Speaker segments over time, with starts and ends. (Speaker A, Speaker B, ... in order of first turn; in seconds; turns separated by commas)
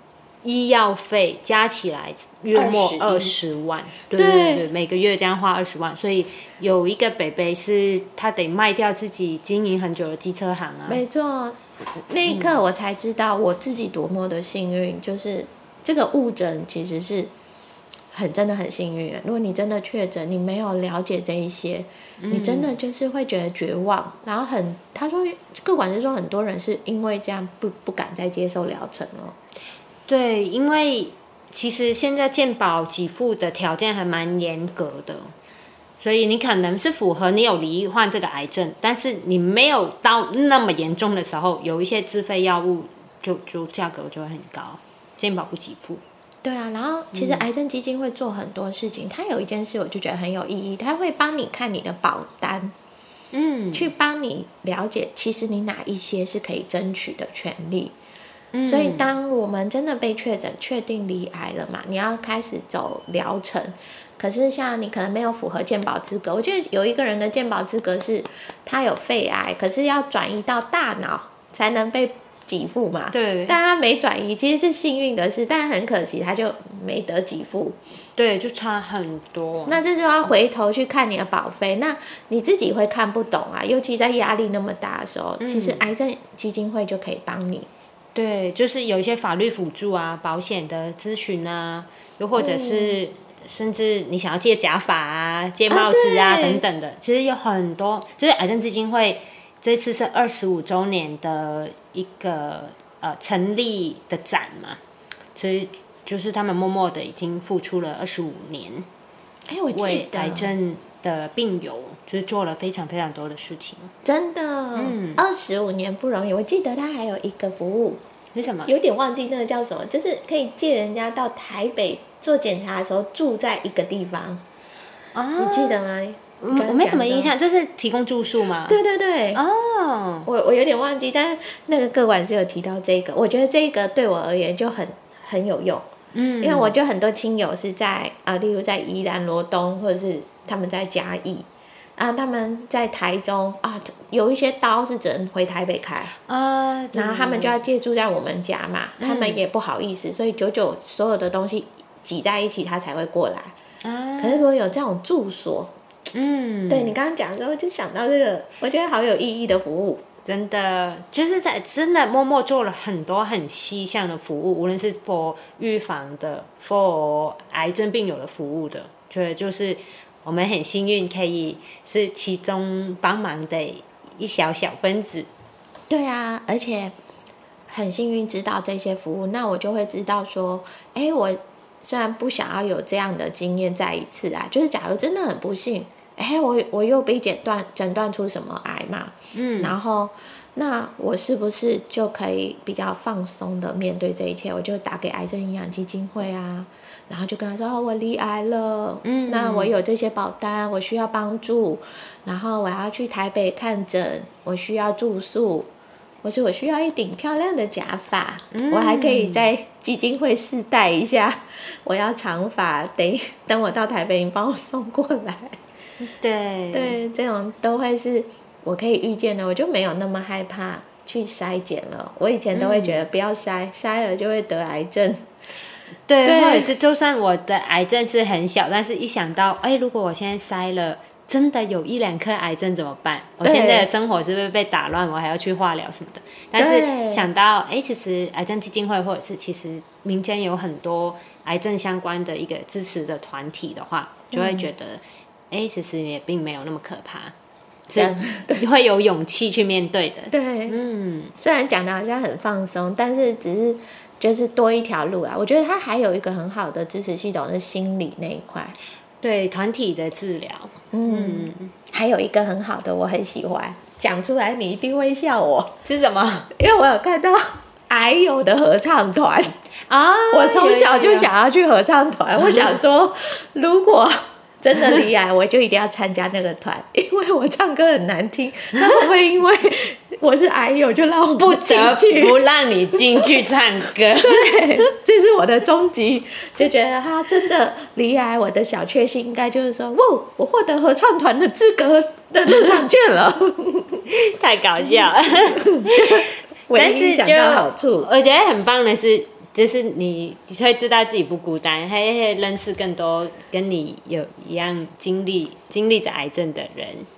Speaker A: 0.4-11.0, Speaker B: 2.5-3.4, Speaker B: 4.1-4.7, Speaker B: 10.9-17.3, Speaker A: 12.3-12.5, Speaker B: 18.1-29.4, Speaker A: 22.2-22.7, Speaker A: 30.1-35.3, Speaker A: 36.0-46.0, Speaker B: 46.4-52.7, Speaker A: 47.1-47.4, Speaker A: 53.3-53.9, Speaker B: 53.7-58.0, Speaker A: 58.5-59.1, Speaker B: 58.7-77.8, Speaker A: 73.1-73.6, Speaker A: 78.2-79.8, Speaker B: 79.7-87.7, Speaker A: 85.4-85.8, Speaker A: 88.2-104.8, Speaker B: 92.3-93.0, Speaker B: 95.7-96.6, Speaker A: 105.3-108.9, Speaker B: 109.5-110.5, Speaker A: 109.7-113.9, Speaker B: 114.0-118.0, Speaker A: 114.8-115.2, Speaker A: 118.3-118.7, Speaker B: 118.7-124.4, Speaker A: 125.1-125.8, Speaker B: 125.4-127.3, Speaker A: 126.4-128.8, Speaker B: 128.7-129.4, Speaker A: 129.3-130.3, Speaker B: 130.2-135.8, Speaker A: 136.1-136.7, Speaker B: 136.4-146.1, Speaker A: 146.3-147.6, Speaker B: 146.9-153.6, Speaker A: 149.0-149.4, Speaker A: 153.8-154.5, Speaker B: 154.2-155.7, Speaker A: 156.1-156.9, Speaker B: 156.7-160.0, Speaker A: 160.3-175.3, Speaker B: 175.9-176.9, Speaker B: 177.7-205.7, Speaker A: 189.3-189.8, Speaker A: 199.0-199.7, Speaker B: 206.2-215.6, Speaker A: 208.5-209.5, Speaker A: 216.0-217.0, Speaker B: 216.7-225.3, Speaker A: 222.5-223.0, Speaker A: 226.1-247.3, Speaker B: 226.2-226.8, Speaker B: 233.4-233.9, Speaker B: 236.6-237.2, Speaker B: 244.3-244.7, Speaker A: 247.9-251.3, Speaker B: 248.0-248.6, Speaker B: 250.3-250.8, Speaker B: 251.4-258.8, Speaker A: 259.2-261.7, Speaker B: 260.9-265.8, Speaker A: 265.9-266.5, Speaker B: 266.5-269.5, Speaker A: 269.9-271.3, Speaker B: 270.3-282.4, Speaker A: 281.4-284.9, Speaker B: 282.9-283.4, Speaker B: 284.2-294.0, Speaker A: 294.1-307.1, Speaker B: 295.5-298.1